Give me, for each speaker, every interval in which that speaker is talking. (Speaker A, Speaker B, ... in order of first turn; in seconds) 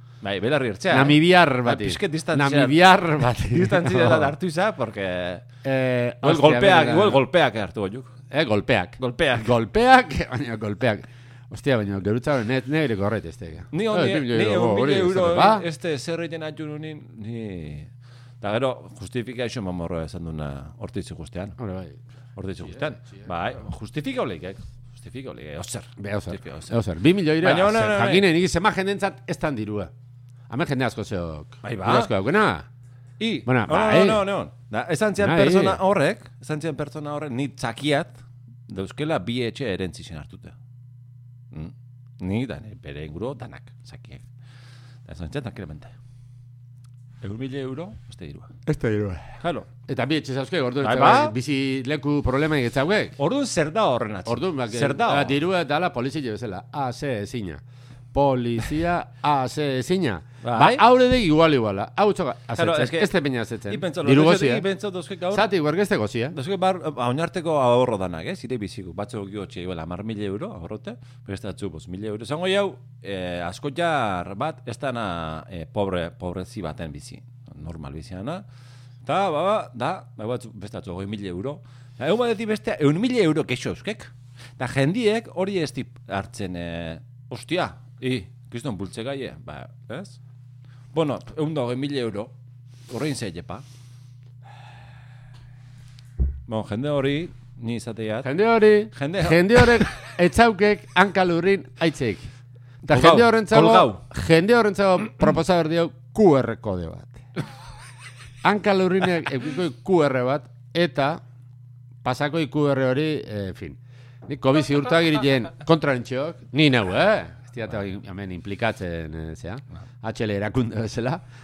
Speaker A: 0.2-5.5, 6.2-8.1, 9.0-9.6, 13.7-17.9, 18.4-21.6, 22.4-26.8, 27.4-28.3, 31.6-32.1, 33.2-40.5, 41.5-44.3, 45.1-45.9, 47.2-48.5, 49.4-49.7, 50.8-51.3, 53.2-55.4, 60.4-60.9, 62.5-63.1, 63.7-65.5, 66.3-78.5, 79.0-90.2, 90.9-92.3, 92.9-93.7, 96.5-98.3, 98.9-100.0, 102.9-104.0
Speaker B: 0.9-4.3, 5.6-7.2, 8.3-15.7, 21.6-22.0, 22.7-23.2, 26.0-29.9, 30.5-32.7, 33.5-34.2, 35.2-35.8, 48.7-53.2, 54.3-57.6, 58.1-64.7, 65.3-66.3, 98.2-102.3, 102.8-107.2, 108.4-111.2, 112.0-121.2